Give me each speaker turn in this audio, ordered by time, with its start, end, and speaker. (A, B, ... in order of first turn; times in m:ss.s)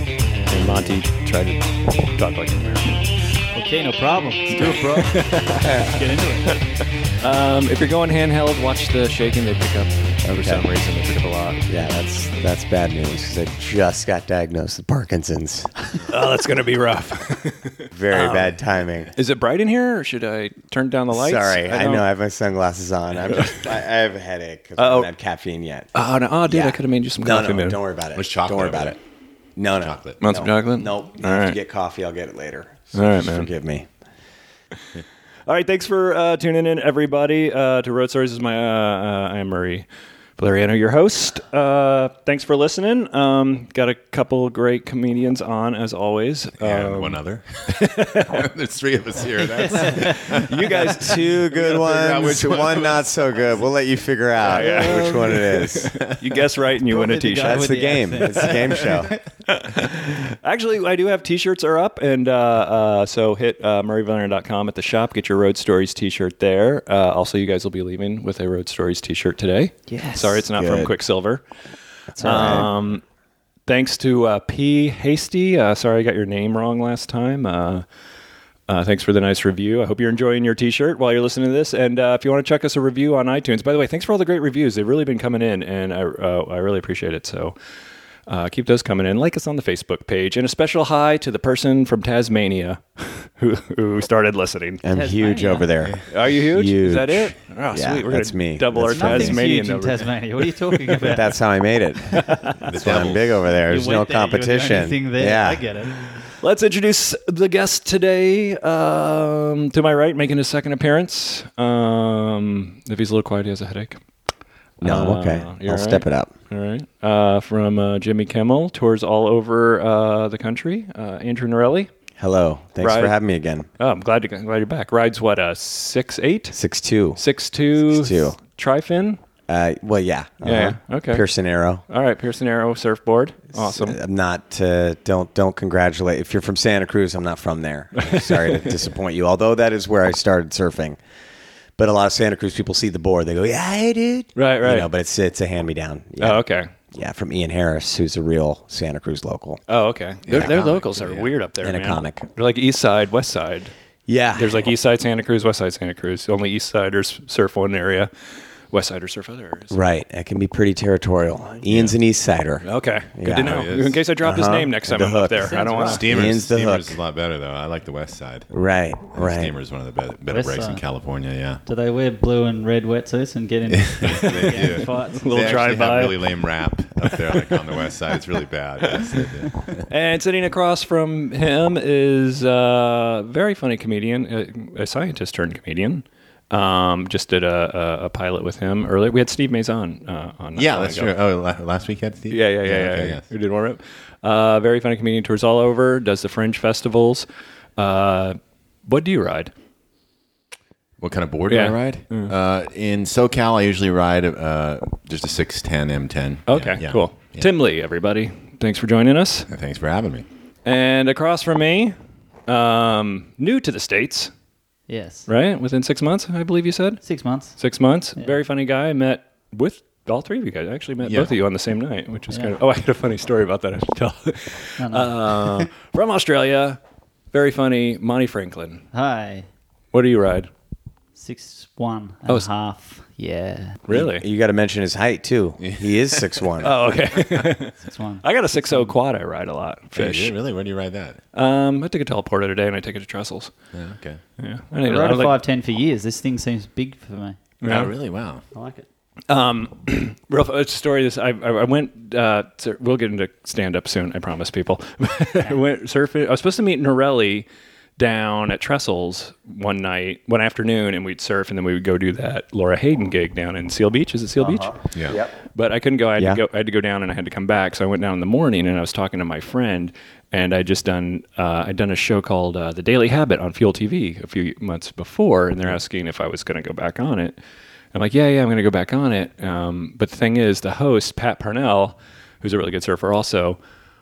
0:00.5-0:03.1 A
0:03.5-0:06.6 B
0:04.6-0:05.9 A
0:05.6-0:05.9 C
0:06.5-0:11.7 A
0:10.2-0:10.6 C
0:11.7-0:15.7 C
0:16.1-0:18.6 A
0:17.9-0:19.1 C
0:19.2-0:22.0 A
0:21.1-0:25.9 C
0:23.3-0:23.7 A
0:24.8-0:25.1 A
0:26.0-0:27.8 A
0:26.4-0:29.0 C
0:28.1-0:29.0 D
0:29.6-0:33.9 C
0:29.8-0:30.2 D
0:30.2-0:31.6 A
0:32.9-0:33.5 A
0:35.5-0:39.8 A
0:40.4-0:48.5 A
0:46.6-0:50.9 D
0:49.6-0:50.3 B
0:49.8-0:51.4 A
0:50.4-0:56.0 C
0:51.4-0:53.3 D
0:54.4-0:58.0 A
0:54.9-0:56.2 D
0:56.9-0:59.2 B
0:57.4-0:59.1 C
0:59.5-1:11.4 A
1:09.9-1:10.3 B
1:10.5-1:10.9 C
1:12.1-1:12.7 C
1:12.2-1:13.0 A
1:13.7-1:17.8 A
1:18.7-1:27.5 A
1:28.3-1:34.8 A
1:34.8-1:39.4 C
1:34.9-1:35.7 B
1:36.1-1:40.1 A
1:38.9-1:41.3 B
1:40.7-1:41.1 A
1:41.1-1:45.6 C
1:42.1-1:42.6 A
1:42.6-1:43.5 D
1:43.7-1:46.0 B
1:46.4-1:54.0 A
1:54.8-2:01.9 A
1:54.8-1:56.3 C
2:02.2-2:03.7 C
2:02.8-2:03.2 A
2:03.8-2:06.6 A
2:06.5-2:07.2 C
2:07.2-2:09.2 A
2:07.8-2:08.4 C
2:09.5-2:11.8 C
2:10.4-2:11.2 A
2:11.9-2:14.0 A
2:13.6-2:21.0 C
2:18.0-2:18.4 A
2:21.8-2:29.6 C
2:24.4-2:24.9 A
2:26.2-2:26.7 A
2:29.7-2:33.7 A
2:30.3-2:31.2 D
2:30.3-2:32.2 C
2:34.1-2:34.7 C
2:34.4-2:38.1 A
2:38.7-2:39.8 A
2:39.7-2:43.7 C
2:41.7-2:41.9 D
2:42.6-2:46.2 A
2:43.3-2:44.0 D
2:44.2-2:47.0 C
2:45.4-2:46.0 B
2:45.8-2:48.5 D
2:48.5-2:49.5 C
2:49.1-2:51.6 D
2:50.3-2:50.8 B
2:51.7-2:55.6 B
2:53.7-2:59.8 D
2:54.5-2:56.3 A
2:57.0-2:57.6 A
2:58.8-2:59.2 A
2:59.9-3:11.1 A
3:10.6-3:13.2 D
3:12.3-3:17.2 A
3:17.8-3:19.5 A
3:21.0-3:27.5 D
3:21.5-3:22.3 A
3:26.5-3:29.5 A
3:29.5-3:30.2 D
3:30.6-3:31.9 A
3:32.5-3:34.3 A
3:34.9-3:35.3 B
3:35.3-3:37.0 A
3:37.0-3:37.6 B
3:37.6-3:46.8 A
3:41.0-3:41.3 D
3:44.8-3:45.7 B
3:47.3-3:48.8 A
3:48.9-3:49.4 B
3:49.9-3:50.5 A
3:51.2-3:53.8 B
3:53.9-3:54.2 A
3:53.9-3:56.8 C
3:55.6-3:56.0 D
3:56.6-4:00.3 A
3:57.8-3:58.9 B
3:59.9-4:01.2 D
4:01.3-4:03.5 A
4:03.7-4:04.2 D
4:04.4-4:05.4 A
4:04.8-4:07.4 B
4:07.6-4:07.9 A
4:07.7-4:08.4 D
4:08.5-4:08.8 B
4:09.3-4:17.5 A
4:18.0-4:24.9 A
4:24.4-4:25.3 C
4:25.6-4:37.4 A
4:37.9-4:43.6 A